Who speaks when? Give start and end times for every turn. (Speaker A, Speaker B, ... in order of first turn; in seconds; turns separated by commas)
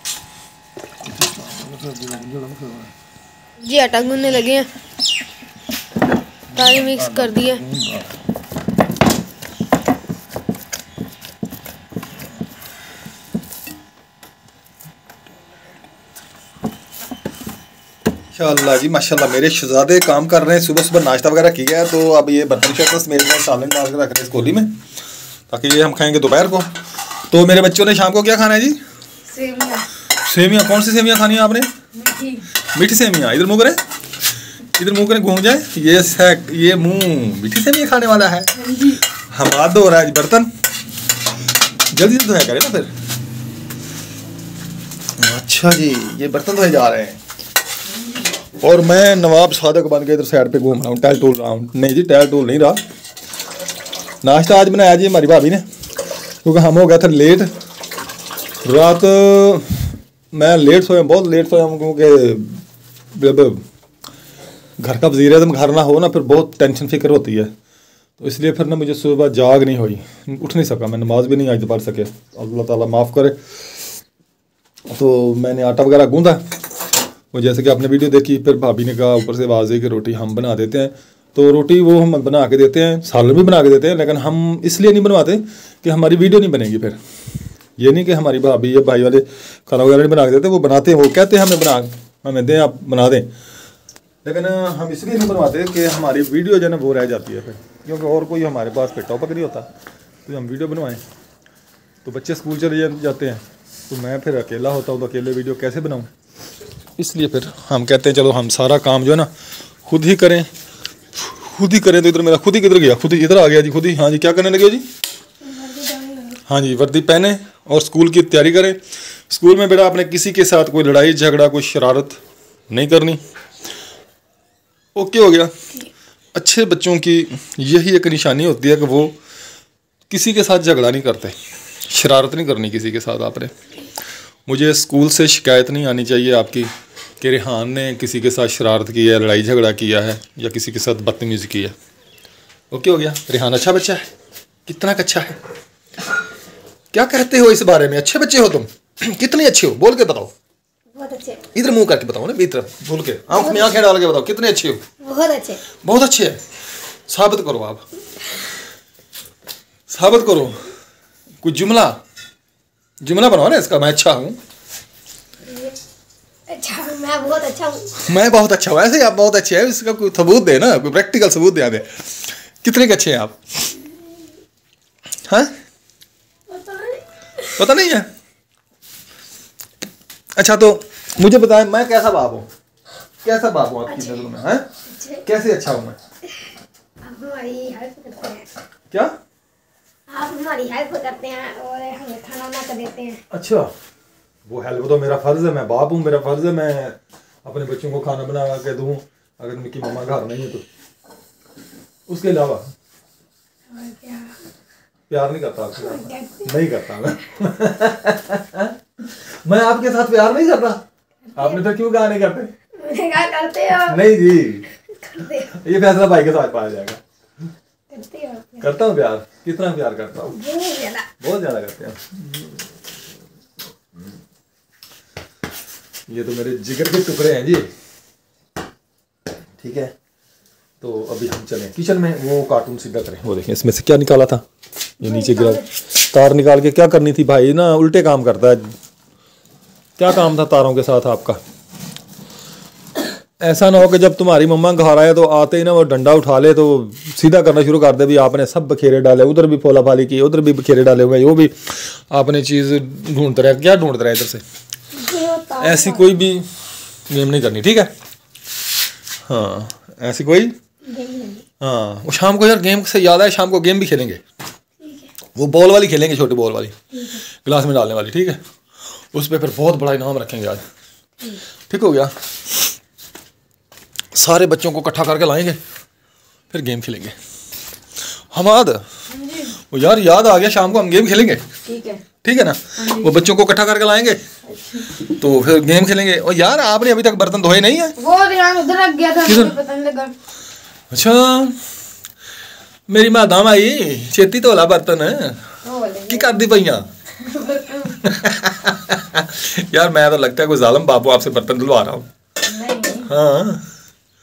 Speaker A: 1.0-2.9, Speaker B: 3.6-4.7, Speaker A: 6.5-8.2, Speaker B: 6.5-7.6, Speaker A: 18.4-24.7, Speaker A: 25.5-26.7, Speaker A: 27.3-28.8, Speaker B: 29.3-29.9, Speaker A: 30.2-31.7, Speaker B: 31.9-32.5, Speaker A: 32.7-33.8, Speaker A: 34.8-38.5, Speaker B: 38.5-39.0, Speaker A: 39.3-40.5, Speaker A: 41.9-42.9, Speaker A: 45.2-47.2, Speaker A: 48.6-52.8, Speaker A: 54.2-55.7, Speaker A: 56.4-57.5, Speaker A: 58.6-62.6, Speaker A: 63.1-63.6, Speaker A: 64.8-67.5, Speaker A: 68.2-73.4, Speaker A: 74.9-76.4, Speaker A: 77.3-87.0, Speaker A: 87.8-93.3, Speaker A: 94.2-99.7, Speaker A: 100.3-101.0, Speaker A: 102.0-106.1, Speaker A: 107.0-109.3, Speaker A: 109.9-110.5, Speaker A: 111.2-114.8, Speaker C: 115.4-116.4, Speaker A: 116.5-118.8, Speaker A: 119.3-122.2, Speaker A: 122.7-123.2, Speaker A: 125.0-125.5, Speaker A: 126.3-129.2, Speaker A: 130.1-131.3, Speaker A: 131.9-133.5, Speaker A: 134.5-136.7, Speaker A: 137.2-141.7, Speaker A: 142.7-144.1, Speaker A: 144.7-145.4, Speaker A: 146.9-150.3, Speaker C: 151.0-151.4, Speaker A: 151.5-154.8, Speaker C: 153.3-153.8, Speaker C: 155.0-155.6, Speaker A: 155.8-156.4, Speaker A: 157.1-157.8, Speaker A: 159.9-160.6, Speaker A: 161.4-162.0, Speaker A: 163.0-164.4, Speaker C: 165.5-165.7, Speaker C: 166.5-168.0, Speaker A: 168.1-173.4, Speaker A: 175.3-175.5, Speaker C: 176.5-177.5, Speaker A: 177.5-178.1, Speaker A: 180.4-182.5, Speaker A: 183.2-184.7, Speaker C: 183.9-184.3, Speaker C: 184.9-185.2, Speaker A: 185.2-186.0, Speaker C: 187.0-188.4, Speaker C: 190.1-193.2, Speaker A: 193.3-193.7, Speaker A: 194.5-200.7, Speaker A: 202.1-202.7, Speaker C: 203.7-204.3, Speaker A: 205.1-210.8, Speaker C: 205.8-206.5, Speaker A: 211.3-212.5, Speaker C: 212.8-214.0, Speaker A: 213.8-214.7, Speaker C: 214.9-215.5, Speaker A: 215.4-217.0, Speaker C: 217.9-218.7, Speaker A: 218.6-220.4, Speaker C: 220.3-221.1, Speaker A: 221.2-222.6, Speaker A: 226.1-227.7, Speaker A: 229.6-229.9, Speaker A: 230.8-234.4, Speaker A: 235.0-238.6, Speaker C: 235.1-235.5, Speaker A: 240.0-241.4, Speaker A: 243.4-254.4, Speaker C: 254.9-256.2, Speaker A: 255.6-256.5, Speaker A: 257.1-257.9, Speaker A: 259.3-260.5, Speaker C: 260.9-261.4, Speaker A: 261.6-264.2, Speaker C: 264.8-265.1, Speaker A: 265.4-266.8, Speaker C: 266.9-267.2, Speaker A: 267.4-268.4, Speaker A: 269.1-270.6, Speaker A: 271.7-272.1, Speaker A: 274.1-275.6, Speaker A: 276.5-277.2, Speaker A: 278.3-278.9, Speaker B: 279.1-279.6, Speaker A: 279.7-281.4, Speaker B: 281.7-282.0, Speaker A: 282.2-284.2, Speaker B: 282.8-283.1, Speaker B: 284.5-284.9, Speaker A: 285.1-287.9, Speaker B: 288.0-290.1, Speaker A: 289.2-289.6, Speaker A: 290.9-291.6, Speaker A: 292.9-295.4, Speaker B: 295.6-296.4, Speaker A: 296.1-296.9, Speaker B: 297.2-298.0, Speaker A: 298.0-302.1, Speaker B: 302.4-303.1, Speaker A: 303.1-303.6